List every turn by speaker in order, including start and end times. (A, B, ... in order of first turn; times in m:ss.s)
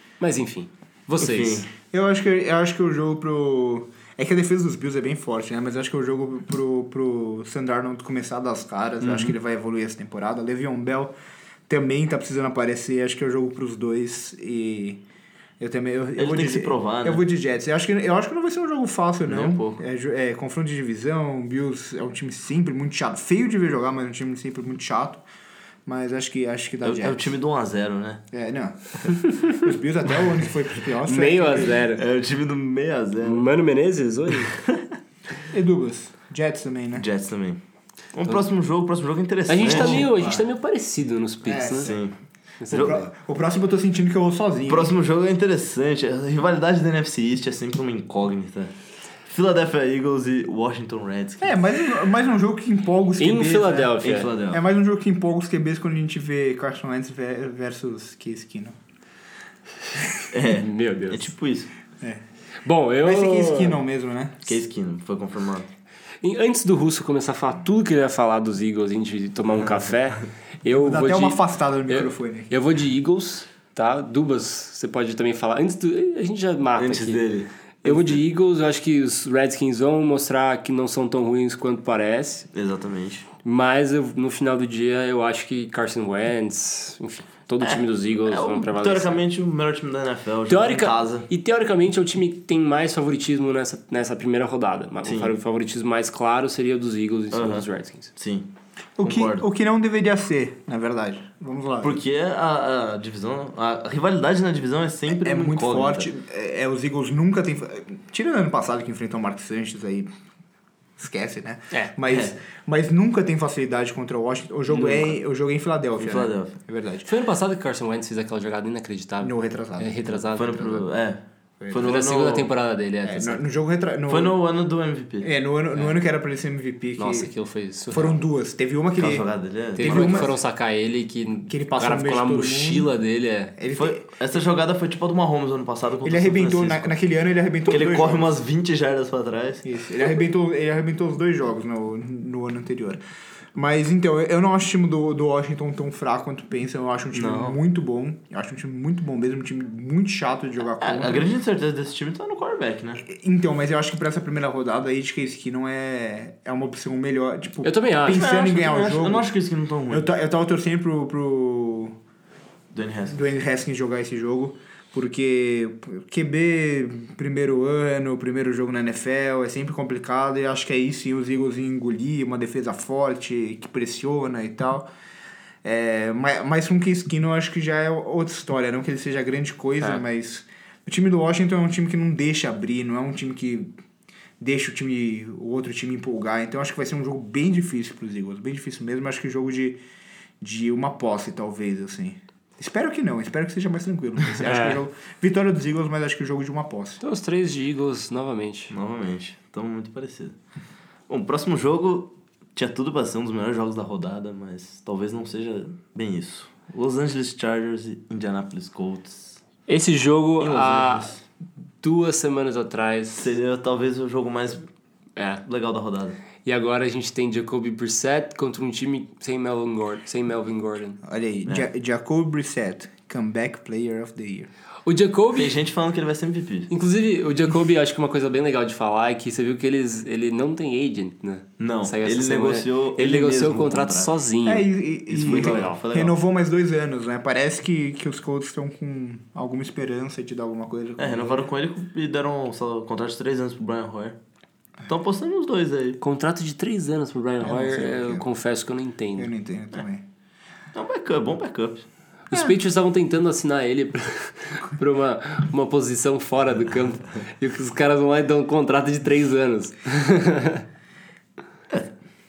0:00.2-0:01.7 A
0:01.2-0:01.6 B
0:01.9-0:11.1 C
0:09.0-0:09.3 B
0:11.7-0:15.0 C
0:15.6-0:25.2 C
0:16.2-0:17.2 B
0:19.3-0:19.8 B
0:25.8-0:27.3 C
0:26.8-0:28.2 B
0:28.3-0:31.8 C
0:31.0-0:32.0 A
0:31.7-0:33.5 B
0:33.2-0:34.6 A
0:34.4-0:34.8 B
0:35.5-0:37.0 C
0:37.0-0:37.6 B
0:38.1-0:40.1 B
0:39.5-0:41.9 A
0:39.6-0:40.4 C
0:41.4-0:42.1 C
0:41.8-0:42.1 B
0:42.6-0:43.0 A
0:42.7-0:43.0 B
0:42.7-0:44.9 C
0:44.7-0:48.7 B
0:49.2-0:51.6 B
0:51.4-0:58.8 C
0:53.2-0:54.3 A
0:54.0-0:54.6 B
0:59.9-1:00.3 C
1:00.3-1:01.7 B
1:00.5-1:01.3 A
1:02.6-1:03.8 A
1:03.0-1:04.5 C
1:04.4-1:05.7 B
1:06.2-1:17.2 A
1:10.7-1:12.5 C
1:16.8-1:18.2 B
1:17.8-1:22.5 A
1:22.5-1:23.3 B
1:23.4-1:29.2 A
1:27.6-1:31.3 B
1:30.5-1:38.1 A
1:35.0-1:35.3 B
1:37.3-1:38.5 B
1:39.0-1:42.0 C
1:39.0-1:39.4 B
1:41.8-1:46.1 B
1:45.1-1:50.1 C
1:51.0-1:57.1 C
1:52.1-1:52.3 B
1:54.7-1:55.2 B
1:56.0-1:56.5 B
1:57.0-2:00.8 A
1:59.2-2:00.0 C
2:00.3-2:02.5 B
2:01.6-2:01.9 C
2:01.7-2:03.4 A
2:03.0-2:04.4 C
2:04.1-2:05.3 B
2:05.2-2:07.3 C
2:07.0-2:08.2 A
2:07.9-2:09.2 C
2:09.0-2:10.3 B
2:09.8-2:10.3 C
2:09.8-2:13.5 A
2:11.5-2:12.9 C
2:13.6-2:14.0 C
2:13.7-2:17.0 B
2:16.0-2:18.4 C
2:17.7-2:19.7 B
2:19.6-2:23.0 C
2:23.5-2:31.3 C
2:27.1-2:27.6 B
2:30.8-2:33.0 B
2:33.0-2:39.3 C
2:37.6-2:38.3 A
2:38.1-2:40.1 B
2:39.9-2:41.9 C
2:42.7-2:43.2 B
2:43.1-2:54.9 C
2:55.6-3:03.7 C
3:04.4-3:09.8 C
3:10.4-3:17.0 C
3:14.4-3:14.8 A
3:17.0-3:18.7 A
3:18.7-3:20.4 B
3:21.1-3:29.4 B
3:29.7-3:31.1 A
3:30.4-3:31.2 B
3:31.8-3:33.3 A
3:33.2-3:34.6 B
3:35.2-3:35.4 A
3:35.4-3:36.2 B
3:36.4-3:41.0 A
3:41.0-3:44.5 C
3:44.8-3:45.6 A
3:45.3-3:46.7 B
3:46.7-3:55.8 A
3:51.6-3:54.1 B
3:54.4-4:01.5 C
3:55.1-3:56.2 B
4:01.0-4:04.2 B
4:04.9-4:06.0 B
4:06.0-4:09.3 A
4:07.4-4:08.3 C
4:09.2-4:10.0 C
4:10.7-4:11.8 B
4:12.3-4:20.6 A